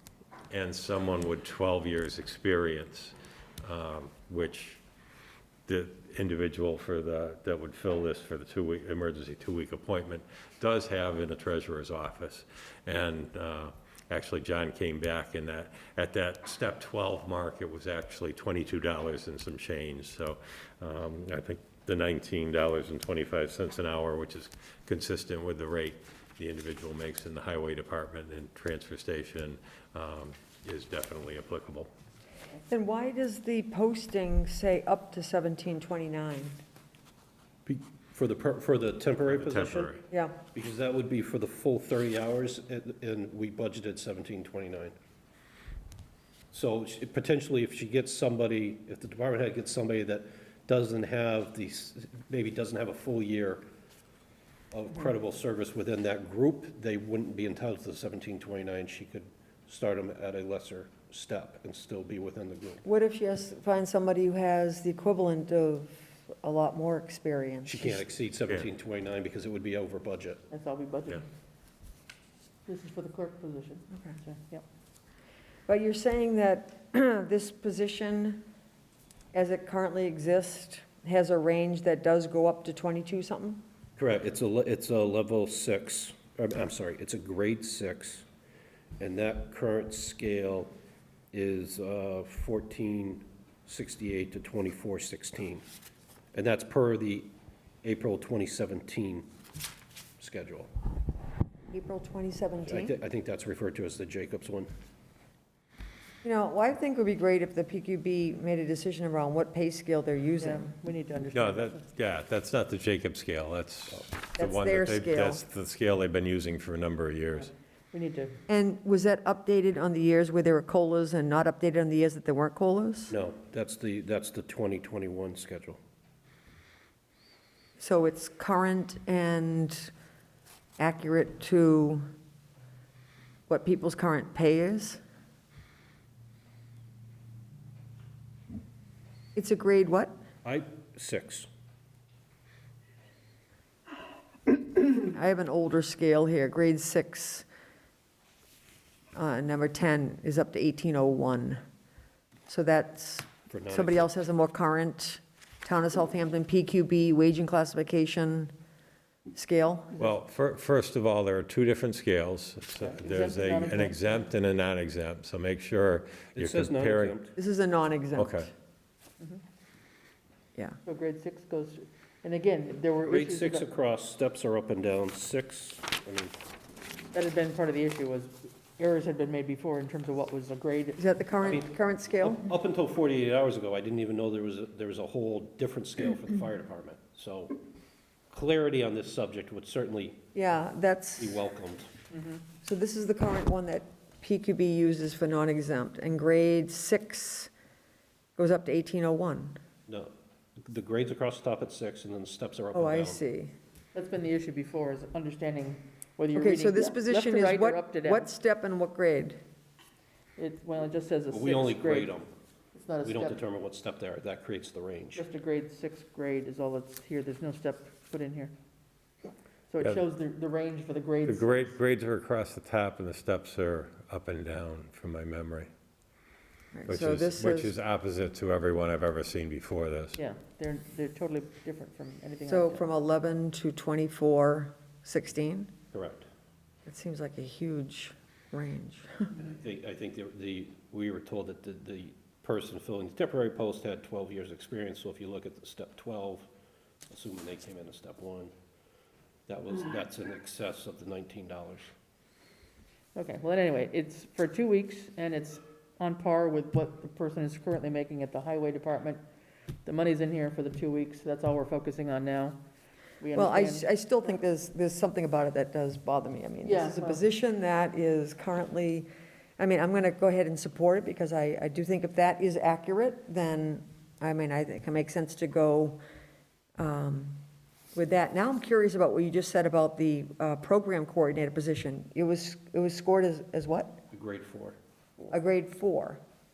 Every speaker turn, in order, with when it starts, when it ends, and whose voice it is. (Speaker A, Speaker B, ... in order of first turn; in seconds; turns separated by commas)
Speaker A: 0.5-4.8, Speaker A: 5.7-31.9, Speaker B: 32.7-36.6, Speaker C: 37.7-39.9, Speaker A: 39.2-40.0, Speaker B: 40.1-40.4, Speaker C: 40.5-44.9, Speaker C: 46.5-53.6, Speaker C: 54.7-62.8, Speaker B: 62.8-68.0, Speaker C: 67.6-70.4, Speaker D: 70.5-71.2, Speaker D: 72.7-74.6, Speaker B: 75.7-78.4, Speaker B: 79.3-83.6, Speaker C: 84.0-88.2, Speaker C: 89.0-90.7, Speaker C: 91.3-95.6, Speaker C: 96.3-97.3, Speaker C: 97.8-99.3, Speaker C: 100.2-100.7, Speaker B: 101.7-102.9, Speaker C: 102.7-104.7, Speaker B: 106.2-110.7, Speaker D: 110.4-111.8, Speaker A: 111.3-117.5, Speaker B: 114.3-115.4, Speaker D: 117.9-118.4, Speaker B: 118.5-123.1, Speaker C: 123.1-125.8, Speaker B: 127.8-129.9, Speaker B: 130.8-132.1, Speaker B: 133.5-135.0, Speaker B: 139.3-140.1, Speaker C: 140.4-141.5, Speaker B: 145.0-147.4, Speaker B: 149.1-151.6, Speaker B: 152.5-158.5, Speaker C: 153.5-154.1, Speaker B: 159.3-160.1, Speaker A: 159.9-167.2, Speaker D: 162.8-164.2, Speaker C: 166.3-167.3, Speaker B: 167.3-168.5, Speaker A: 168.2-168.5, Speaker D: 170.8-173.6, Speaker C: 173.0-176.4, Speaker D: 177.1-181.0, Speaker B: 181.0-182.4, Speaker C: 181.5-181.7, Speaker C: 182.3-187.6, Speaker C: 188.3-190.2, Speaker B: 190.3-191.4, Speaker C: 191.2-191.9, Speaker D: 192.1-192.4, Speaker B: 192.6-197.5, Speaker B: 198.3-199.6, Speaker C: 199.9-203.2, Speaker B: 202.7-203.5, Speaker D: 203.9-208.3, Speaker B: 206.3-209.4, Speaker D: 210.4-212.2, Speaker C: 211.3-212.3, Speaker D: 212.7-213.4, Speaker C: 213.0-215.2, Speaker D: 215.2-218.5, Speaker D: 219.7-221.7, Speaker A: 221.2-225.7, Speaker B: 226.7-227.7, Speaker A: 226.9-230.2, Speaker D: 230.2-232.8, Speaker B: 232.4-235.7, Speaker C: 235.9-236.2, Speaker B: 236.8-239.4, Speaker C: 239.4-246.4, Speaker C: 247.1-248.5, Speaker C: 249.5-251.9, Speaker D: 253.1-259.2, Speaker D: 259.8-262.6, Speaker D: 263.2-263.9, Speaker B: 263.3-276.0, Speaker D: 266.6-267.2, Speaker B: 276.8-277.4, Speaker B: 277.9-284.0, Speaker C: 284.1-284.8, Speaker B: 285.3-286.2